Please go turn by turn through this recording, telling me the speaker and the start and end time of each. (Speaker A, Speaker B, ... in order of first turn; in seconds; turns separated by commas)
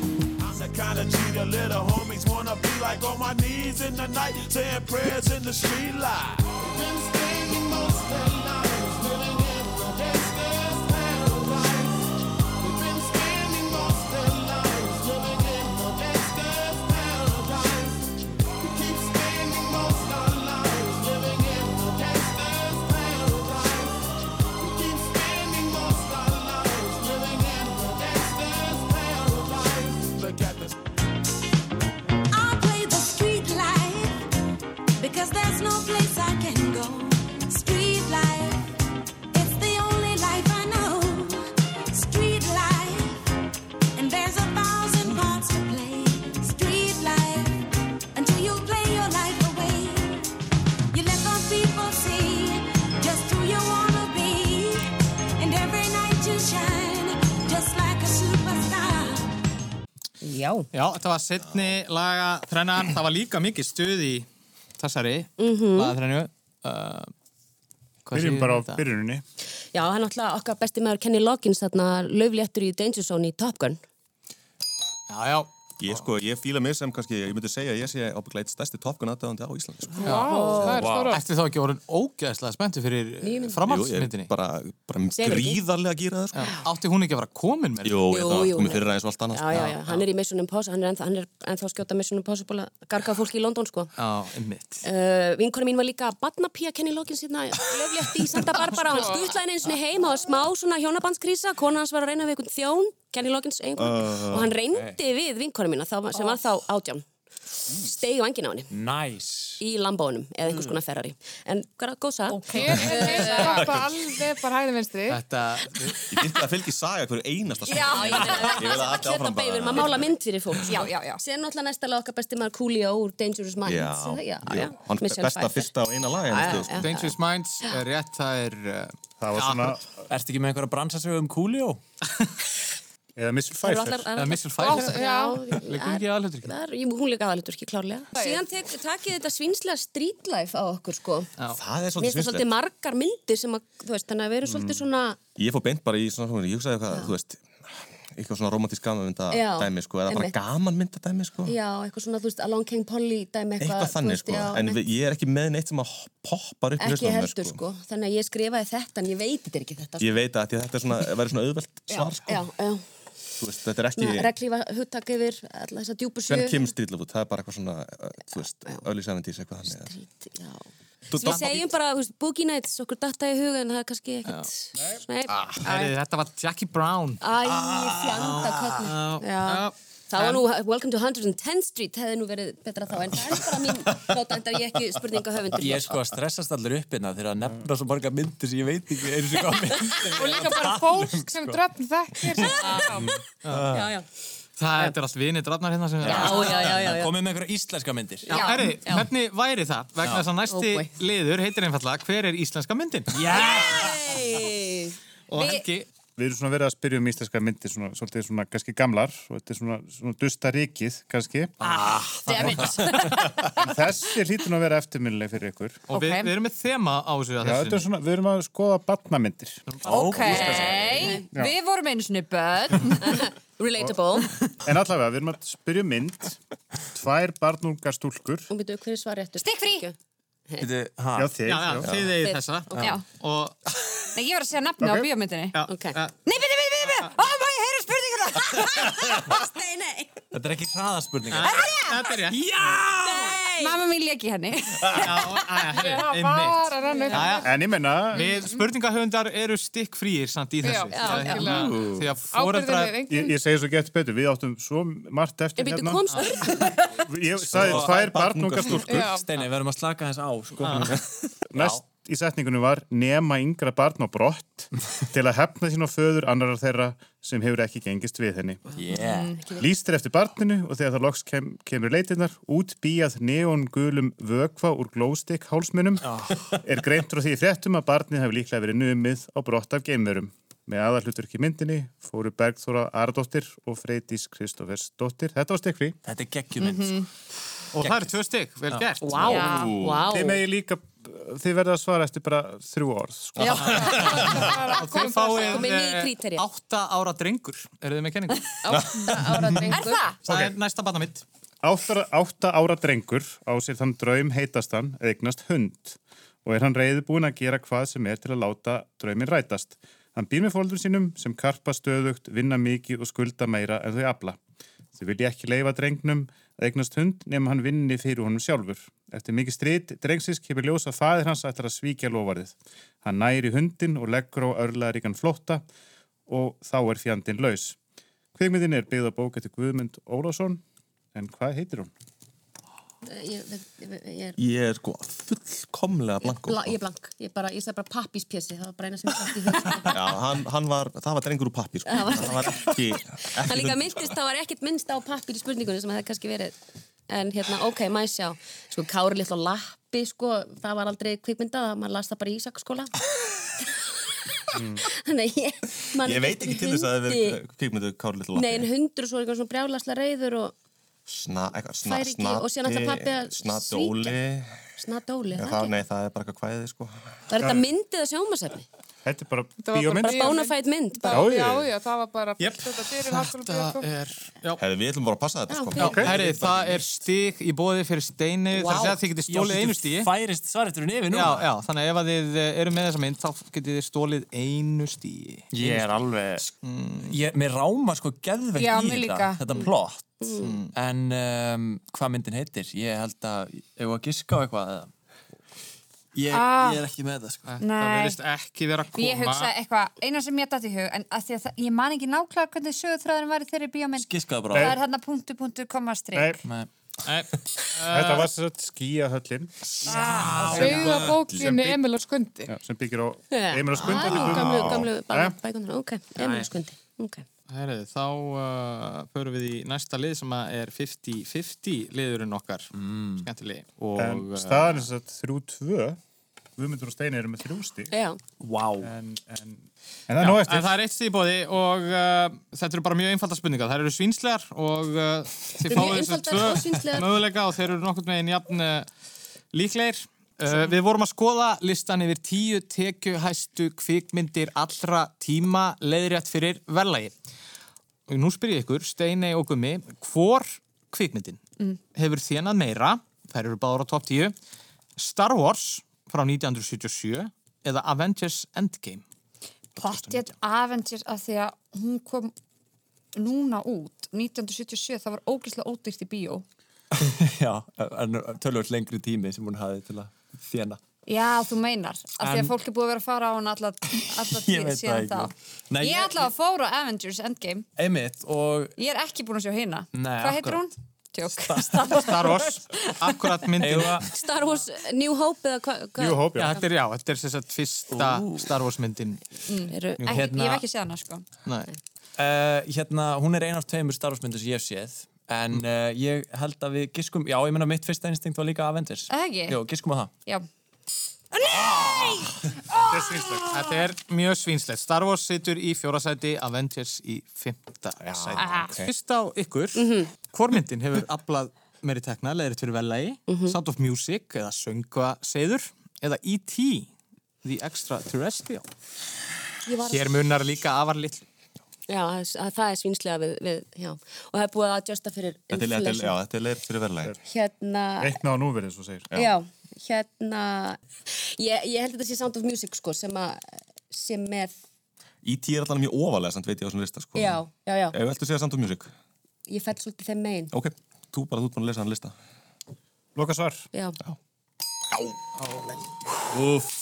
Speaker A: 0.4-12.0, Speaker A: 12.6-18.0, Speaker A: 18.6-24.0, Speaker A: 24.6-30.8, Speaker B: 32.3-34.3, Speaker B: 35.0-38.7, Speaker B: 39.3-43.3, Speaker B: 43.9-50.3, Speaker B: 50.9-59.4, Speaker C: 60.2-60.7, Speaker D: 60.7-64.3, Speaker D: 64.8-67.1, Speaker C: 65.4-65.9, Speaker D: 68.0-68.8, Speaker E: 68.1-69.2, Speaker C: 69.7-73.8, Speaker D: 75.1-76.0, Speaker F: 75.8-80.6, Speaker C: 79.9-80.9, Speaker G: 80.0-81.2, Speaker D: 80.0-80.3, Speaker H: 80.7-81.1, Speaker D: 81.0-84.3, Speaker C: 83.2-83.7, Speaker F: 83.6-86.6, Speaker C: 85.2-85.6, Speaker D: 86.3-88.0, Speaker F: 87.8-89.9, Speaker C: 88.1-93.9, Speaker D: 89.5-90.0, Speaker D: 94.0-94.8, Speaker C: 94.8-107.0, Speaker G: 98.8-99.4, Speaker F: 103.8-104.6, Speaker C: 107.7-108.7, Speaker H: 108.7-109.6, Speaker C: 109.6-113.8, Speaker I: 112.3-113.8, Speaker G: 112.5-115.2, Speaker D: 115.1-116.0, Speaker F: 116.1-120.6, Speaker I: 117.7-118.6, Speaker C: 117.7-125.7, Speaker I: 120.7-121.2, Speaker F: 123.6-126.9, Speaker C: 126.2-127.1, Speaker D: 126.8-129.8, Speaker E: 129.2-129.8, Speaker H: 130.1-131.8, Speaker E: 133.2-134.1, Speaker C: 133.6-141.3, Speaker D: 134.2-136.5, Speaker G: 134.6-135.4, Speaker G: 138.1-138.4, Speaker F: 141.5-142.5, Speaker C: 142.0-145.2, Speaker F: 145.4-151.5, Speaker C: 149.3-150.3, Speaker C: 151.4-154.8, Speaker F: 153.6-157.6, Speaker C: 156.8-160.2, Speaker F: 160.0-162.4, Speaker C: 161.9-162.8, Speaker F: 163.4-164.3, Speaker C: 164.0-166.7, Speaker F: 166.3-169.9, Speaker C: 169.7-175.9, Speaker F: 171.1-171.6, Speaker D: 171.2-171.5, Speaker D: 175.3-177.2, Speaker C: 177.2-185.9, Speaker H: 177.7-178.5, Speaker D: 178.1-180.4, Speaker H: 185.6-191.6, Speaker G: 190.1-193.2, Speaker H: 192.3-193.9, Speaker C: 192.4-193.0, Speaker D: 193.4-193.7, Speaker C: 193.7-194.1, Speaker D: 194.6-196.7, Speaker H: 196.0-198.5, Speaker C: 196.0-197.1, Speaker C: 198.3-199.1, Speaker I: 198.3-198.7, Speaker D: 198.3-203.2, Speaker C: 200.5-200.9, Speaker H: 203.1-204.2, Speaker C: 203.3-205.0, Speaker D: 205.3-205.9, Speaker I: 205.3-205.7, Speaker E: 206.2-211.5, Speaker H: 211.6-213.3, Speaker I: 212.2-213.2, Speaker D: 212.3-212.8, Speaker E: 213.5-215.8, Speaker D: 215.9-217.8, Speaker I: 215.9-216.3, Speaker E: 217.4-219.6, Speaker D: 219.7-220.8, Speaker H: 219.8-220.9, Speaker I: 219.9-223.2, Speaker C: 220.4-221.2, Speaker C: 223.0-224.3, Speaker E: 224.6-226.4, Speaker E: 226.9-228.5, Speaker C: 228.5-229.9, Speaker I: 229.4-229.8, Speaker H: 230.6-231.4, Speaker E: 231.2-231.9, Speaker D: 231.5-233.6, Speaker C: 232.2-232.9, Speaker I: 234.1-235.6, Speaker E: 234.8-235.1, Speaker D: 235.5-236.2, Speaker C: 235.7-236.0, Speaker I: 236.2-239.3, Speaker C: 239.2-240.2, Speaker H: 240.3-241.7, Speaker D: 241.3-242.4, Speaker C: 242.7-243.8, Speaker I: 243.1-245.1, Speaker D: 245.0-247.5, Speaker I: 245.7-247.3, Speaker G: 245.8-247.6, Speaker E: 247.4-248.3, Speaker D: 248.1-253.0, Speaker G: 248.1-248.6, Speaker G: 250.6-253.3, Speaker C: 250.9-251.5, Speaker F: 251.5-252.1, Speaker E: 253.1-256.0, Speaker C: 255.6-257.0, Speaker E: 257.0-259.1, Speaker F: 257.4-259.1, Speaker H: 257.5-258.1, Speaker G: 258.8-259.3, Speaker H: 259.1-261.8, Speaker D: 260.6-261.0, Speaker E: 261.5-268.6, Speaker H: 268.8-269.4, Speaker C: 268.8-269.7, Speaker E: 269.6-286.0, Speaker H: 276.0-276.6, Speaker H: 286.0-287.1, Speaker I: 286.6-287.0, Speaker D: 287.7-289.1, Speaker H: 287.8-288.1, Speaker C: 289.0-290.4, Speaker F: 289.1-290.1, Speaker I: 289.3-289.6, Speaker E: 290.1-294.1, Speaker F: 293.4-294.3, Speaker G: 293.7-295.7, Speaker D: 293.8-294.2, Speaker D: 294.7-298.5, Speaker C: 295.5-296.4, Speaker C: 298.6-300.1, Speaker F: 298.7-299.6, Speaker I: 299.7-300.2, Speaker D: 300.2-301.2, Speaker E: 301.6-314.4, Speaker E: 314.9-325.6, Speaker E: 326.3-327.8, Speaker E: 328.3-330.6, Speaker E: 331.1-331.9, Speaker C: 333.1-334.4, Speaker F: 334.4-336.8, Speaker C: 336.2-340.2, Speaker F: 339.9-344.1, Speaker C: 341.9-346.6, Speaker C: 347.1-352.9, Speaker C: 354.6-357.4, Speaker F: 356.0-358.7, Speaker C: 358.4-360.5, Speaker F: 361.1-364.7, Speaker C: 361.8-364.2, Speaker C: 364.8-365.7, Speaker F: 365.3-367.2, Speaker C: 367.3-368.6, Speaker E: 367.4-367.7, Speaker E: 369.0-370.4, Speaker G: 369.6-373.9, Speaker C: 369.9-371.3, Speaker E: 371.1-371.7, Speaker D: 372.4-374.6, Speaker F: 374.6-376.9, Speaker C: 375.5-376.1, Speaker E: 375.8-376.1, Speaker D: 375.8-380.1, Speaker C: 378.5-379.0, Speaker H: 379.3-381.4, Speaker D: 381.1-385.9, Speaker H: 385.5-386.5, Speaker D: 386.6-387.1, Speaker H: 387.1-394.9, Speaker I: 388.6-389.4, Speaker C: 390.2-390.5, Speaker D: 390.4-390.7, Speaker H: 396.1-397.5, Speaker I: 396.3-396.8, Speaker D: 397.5-399.5, Speaker I: 397.6-398.2, Speaker I: 398.9-406.4, Speaker H: 404.0-404.8, Speaker E: 404.5-404.8, Speaker D: 407.0-408.3, Speaker E: 407.9-409.5, Speaker I: 409.9-410.4, Speaker H: 409.9-411.2, Speaker D: 410.4-411.1, Speaker G: 410.4-412.5, Speaker E: 410.7-411.8, Speaker E: 412.5-415.4, Speaker C: 413.3-417.2, Speaker F: 413.9-414.9, Speaker D: 417.5-424.8, Speaker H: 422.7-423.3, Speaker E: 423.9-426.0, Speaker E: 426.6-427.9, Speaker C: 427.9-428.2, Speaker H: 428.4-428.9, Speaker E: 428.8-430.7, Speaker D: 430.2-438.9, Speaker C: 435.6-437.1, Speaker D: 439.5-447.1, Speaker D: 448.1-451.4, Speaker D: 451.9-454.3, Speaker D: 455.0-459.0, Speaker D: 459.8-460.3, Speaker I: 459.8-462.3, Speaker I: 463.1-466.4, Speaker H: 466.9-470.8, Speaker I: 471.1-477.6, Speaker H: 472.2-472.5, Speaker H: 474.3-476.2, Speaker H: 477.8-478.7, Speaker I: 478.8-483.0, Speaker H: 479.9-480.7, Speaker H: 481.3-482.4, Speaker D: 482.0-484.0, Speaker H: 483.6-484.1, Speaker C: 484.1-486.6, Speaker E: 486.0-486.6, Speaker D: 486.3-489.2, Speaker H: 487.9-488.5, Speaker I: 489.5-491.2, Speaker C: 489.7-490.2, Speaker H: 490.1-490.6, Speaker H: 492.2-500.1, Speaker I: 499.1-499.6, Speaker I: 501.6-502.2, Speaker E: 502.8-503.5, Speaker D: 503.5-516.9, Speaker I: 508.4-508.7, Speaker C: 509.7-510.1, Speaker C: 513.3-513.6, Speaker D: 517.4-518.6, Speaker C: 519.6-520.1, Speaker D: 519.9-521.2, Speaker C: 521.9-526.1, Speaker F: 525.5-527.1, Speaker C: 527.2-528.2, Speaker E: 528.0-529.1, Speaker C: 529.1-534.6, Speaker F: 535.2-538.9, Speaker C: 537.1-537.9, Speaker C: 539.5-540.5, Speaker F: 540.5-542.1, Speaker E: 543.1-543.7, Speaker H: 546.4-546.6